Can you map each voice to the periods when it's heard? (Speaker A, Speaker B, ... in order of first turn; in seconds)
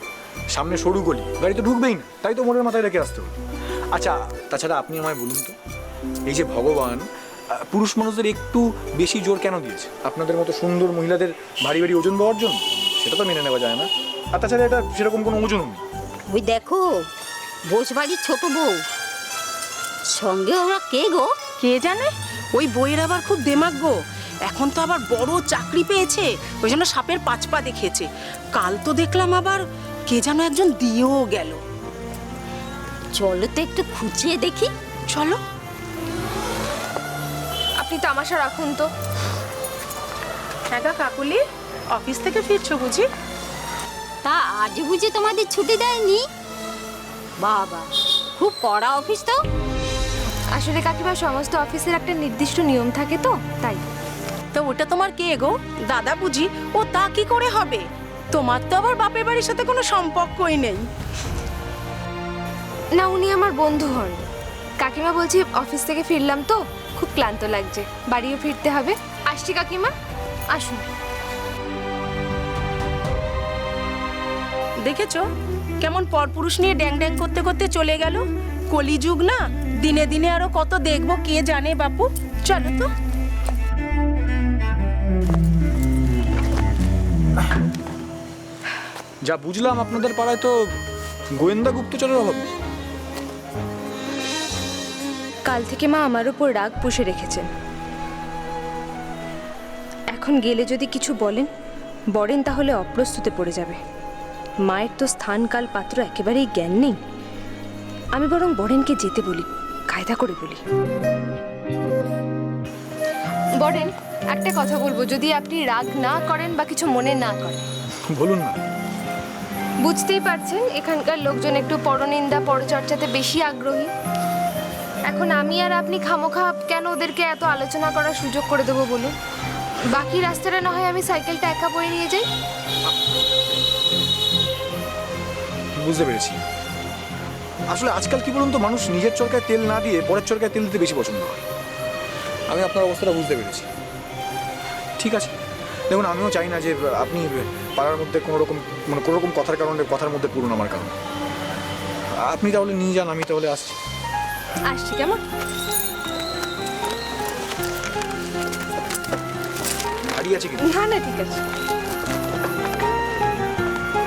Speaker A: 0.5-3.4, 3.9-5.5, 6.3-15.8, 89.2-90.5, 91.4-92.5, 118.1-118.6, 135.8-136.4, 137.7-141.4, 142.5-143.7, 145.0-145.3, 145.9-150.9, 152.2-153.8, 160.1-160.7
Speaker B: 16.3-17.0, 17.7-18.8, 20.1-21.3, 33.1-34.7, 44.2-46.2, 47.4-49.4
Speaker C: 21.6-31.6, 35.1-35.4, 40.7-43.1, 54.5-60.9, 74.8-75.2, 75.8-82.9
Speaker D: 37.8-38.9, 50.5-53.8, 63.0-64.2, 64.8-69.9, 70.5-70.9, 95.5-97.5, 100.1-101.5, 102.2-103.8, 104.7-107.0, 108.2-110.6, 113.6-117.7, 119.8-123.9, 125.1-129.1, 129.9-132.2, 154.7-155.2, 160.6-161.4